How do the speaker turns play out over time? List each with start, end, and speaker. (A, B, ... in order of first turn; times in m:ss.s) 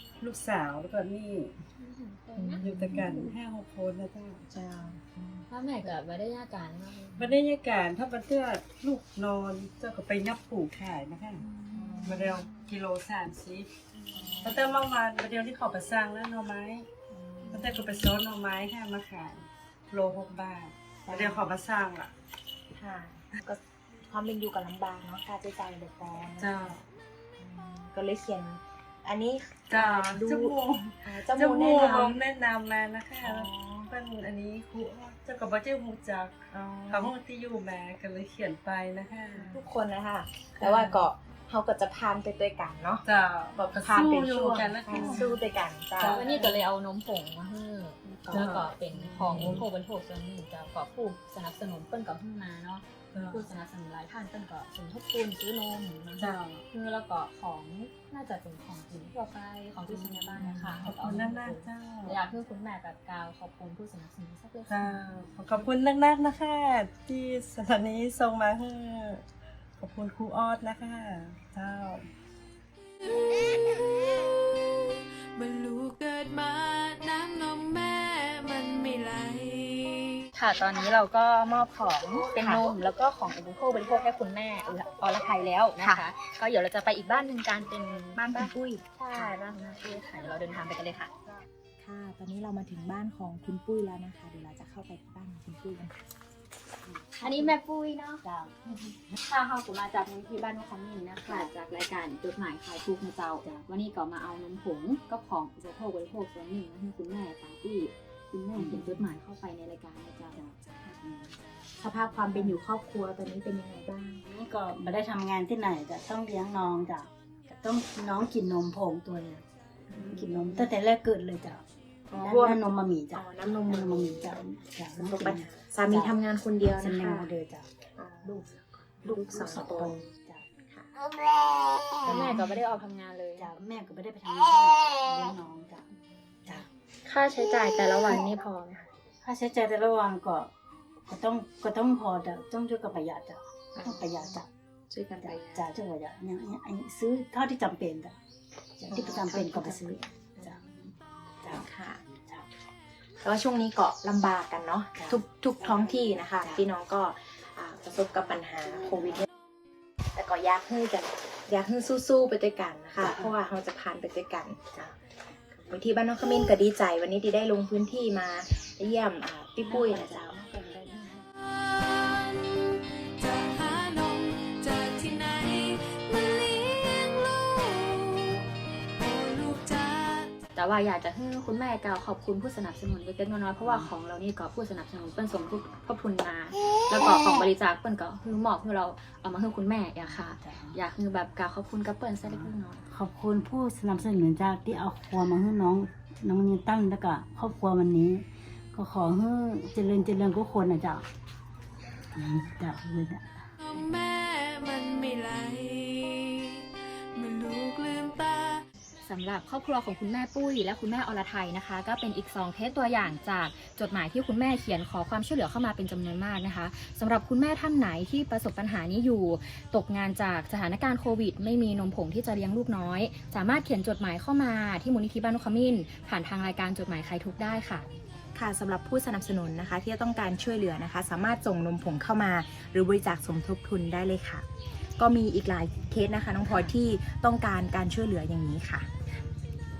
0:00.2-0:01.6 A
0:01.8-0:03.0 B
0:02.4-0:03.3 C
0:02.6-0:04.5 A
0:04.5-0:05.4 C
0:05.5-0:07.3 B
0:07.2-0:11.4 A
0:11.4-0:12.5 C
0:12.0-0:13.7 A
0:14.1-0:14.8 C
0:14.4-0:16.9 A
0:17.1-0:18.1 C
0:17.5-0:22.1 A
0:21.1-0:21.5 C
0:22.7-0:26.8 C
0:26.4-0:26.8 A
0:27.4-0:32.2 C
0:29.7-0:39.6 A
0:33.2-0:33.9 C
0:36.5-0:37.1 C
0:39.3-0:43.0 C
0:40.6-0:41.0 A
0:43.0-0:45.4 A
0:43.6-0:46.2 C
0:44.9-0:45.2 B
0:46.0-0:46.6 A
0:46.1-1:05.0 B
0:48.3-0:49.6 A
0:53.1-0:53.5 A
0:56.2-0:56.6 A
0:59.9-1:02.2 A
1:04.7-1:09.2 A
1:09.8-1:12.1 A
1:13.0-1:20.2 D
1:20.3-1:31.1 B
1:22.4-1:22.7 C
1:25.8-1:26.0 C
1:28.2-1:29.4 C
1:31.8-1:35.9 C
1:36.8-1:37.2 E
1:37.2-1:37.6 C
1:37.2-1:50.5 B
1:38.2-1:38.5 E
1:48.6-1:49.0 C
1:51.8-1:54.2 C
1:54.2-2:01.6 E
1:59.9-2:00.7 C
2:02.1-2:04.4 C
2:02.1-2:06.1 E
2:04.9-2:07.3 C
2:06.8-2:07.7 E
2:08.0-2:10.1 C
2:09.0-2:10.4 E
2:12.0-2:13.5 B
2:12.1-2:12.4 C
2:13.4-2:15.9 E
2:17.0-2:18.8 B
2:19.2-2:20.5 E
2:21.0-2:24.5 E
2:23.7-2:24.4 C
2:24.9-2:25.8 C
2:25.2-2:28.2 E
2:28.8-2:30.6 C
2:28.9-2:30.9 E
2:31.4-2:31.7 E
2:31.5-2:32.0 C
2:32.2-2:32.5 E
2:33.2-2:39.3 C
2:34.9-2:36.6 E
2:40.1-2:44.9 C
2:45.5-2:50.5 C
2:49.7-2:51.2 B
2:51.5-2:58.4 D
2:59.0-3:00.3 D
3:00.5-3:12.8 B
3:03.6-3:03.9 E
3:10.0-3:10.8 E
3:12.3-3:21.1 E
3:22.1-3:23.5 E
3:23.6-3:28.6 D
3:29.0-3:47.9 B
3:48.3-3:54.4 C
3:55.0-3:58.9 C